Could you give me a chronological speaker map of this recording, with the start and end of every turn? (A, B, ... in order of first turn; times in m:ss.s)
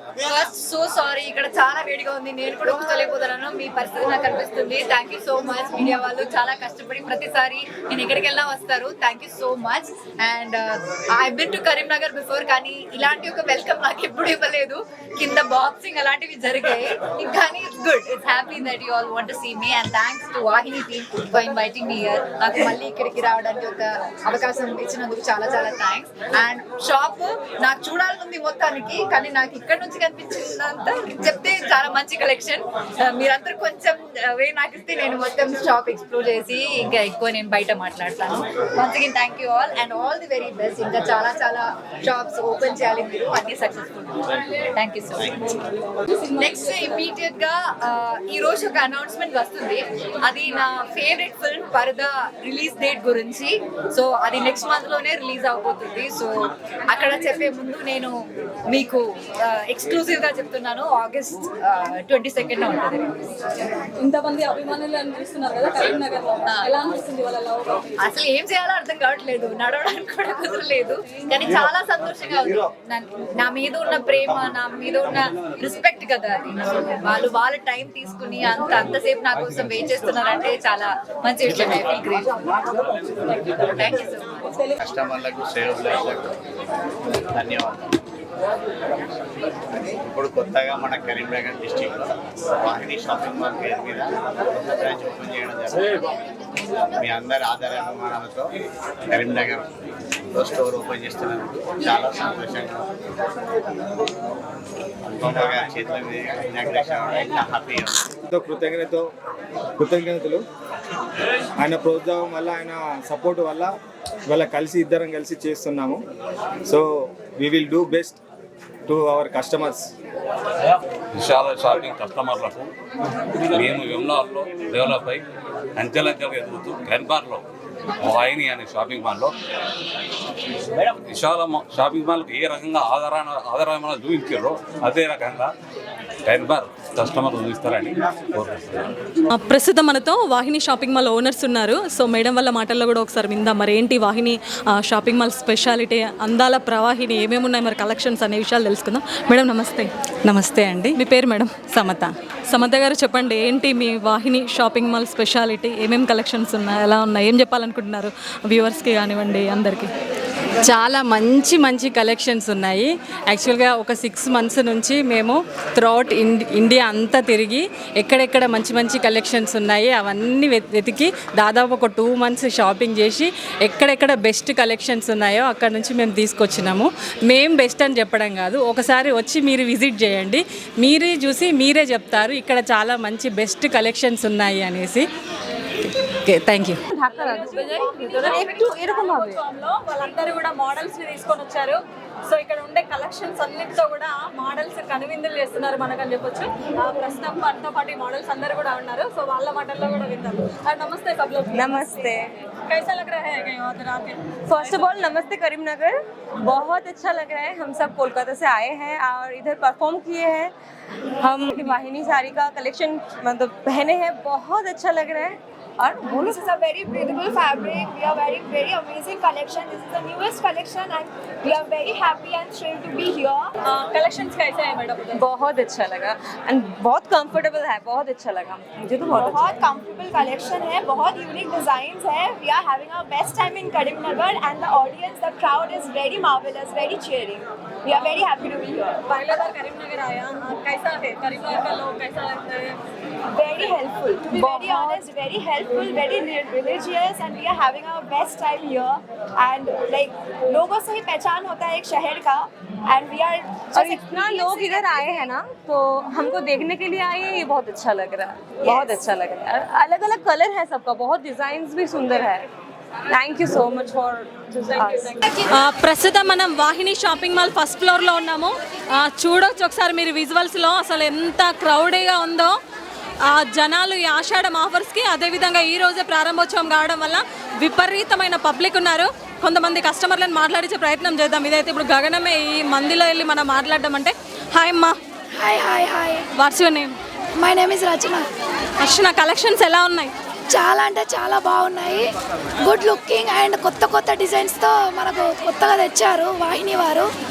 0:00.2-0:45.6 A
0:46.3-0:56.3 A
0:56.9-0:58.1 A
0:58.7-1:03.2 A
1:04.0-1:07.8 B
1:08.0-1:22.6 A
1:23.5-1:24.5 A
1:24.8-1:26.3 C
1:27.3-1:27.9 C
1:30.0-1:36.0 C
1:37.0-1:38.5 C
1:39.1-1:39.7 C
1:40.4-1:42.8 C
1:45.0-1:48.1 C
1:48.3-1:49.1 D
1:49.8-1:50.4 D
1:51.6-1:53.7 D
1:54.3-1:56.0 D
1:56.7-1:58.2 D
1:58.9-1:59.9 D
2:01.2-2:02.7 E
2:03.5-2:05.2 E
2:05.8-2:07.4 E
2:08.0-2:09.3 E
2:11.1-2:15.5 E
2:16.3-2:18.9 E
2:19.3-2:29.9 B
2:30.3-2:31.0 F
2:31.0-2:39.9 B
2:40.7-3:05.1 F
3:06.3-3:06.8 F
3:06.9-3:09.4 G
3:07.1-3:22.1 B
3:21.5-3:22.3 G
3:22.7-3:24.9 B
3:24.5-3:30.5 G
3:31.2-3:36.4 G
3:36.3-3:43.4 H
3:43.7-3:45.2 B
3:45.2-3:49.5 G
3:49.2-3:58.8 H
3:59.1-4:02.8 B
4:03.4-4:14.9 H
4:04.4-4:05.1 G
4:13.7-4:22.5 G
4:23.1-4:25.2 G
4:25.5-4:32.5 B
4:33.2-4:45.0 B
4:45.4-4:46.2 H
4:46.4-4:47.0 B
4:47.4-4:48.3 H
4:48.8-4:50.1 B
4:50.5-4:52.1 H
4:52.6-4:57.1 H